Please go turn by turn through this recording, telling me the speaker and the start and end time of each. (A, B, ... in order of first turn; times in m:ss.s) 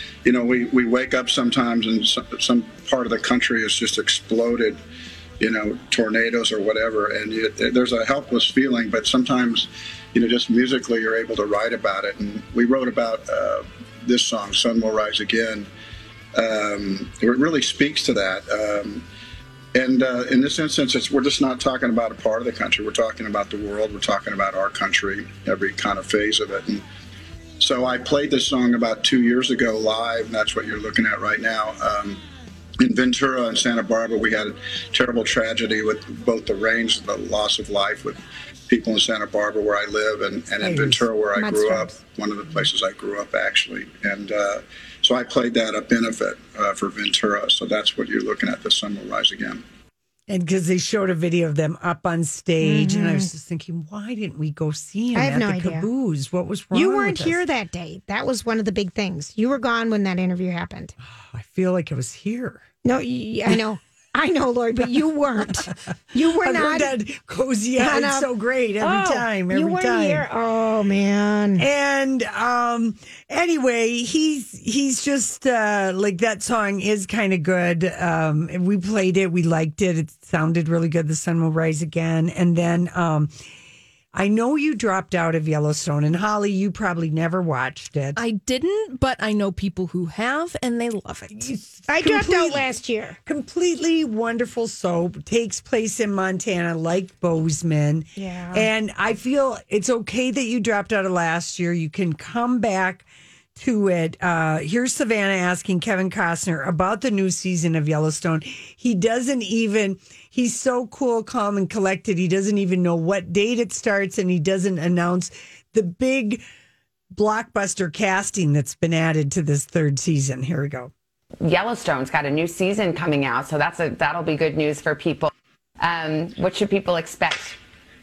0:00.2-0:04.8 A
0:05.4-0:15.7 A
0:16.4-0:19.0 A
0:19.7-0:26.8 A
0:27.6-0:32.2 A
0:32.8-0:49.6 A
0:40.6-0:41.1 B
0:41.4-0:41.9 C
0:50.3-0:57.4 B
0:52.6-0:53.3 C
0:55.2-0:55.9 C
0:56.7-1:01.0 C
1:01.0-1:02.6 B
1:02.8-1:06.9 C
1:06.2-1:10.3 B
1:07.8-1:08.3 C
1:08.8-1:11.7 C
1:11.6-1:23.3 B
1:24.1-1:28.2 B
1:28.2-1:31.5 D
1:31.3-1:32.7 B
1:31.9-1:33.2 C
1:33.3-1:56.4 B
1:38.2-1:38.7 C
1:57.1-2:00.9 B
2:01.4-2:07.6 E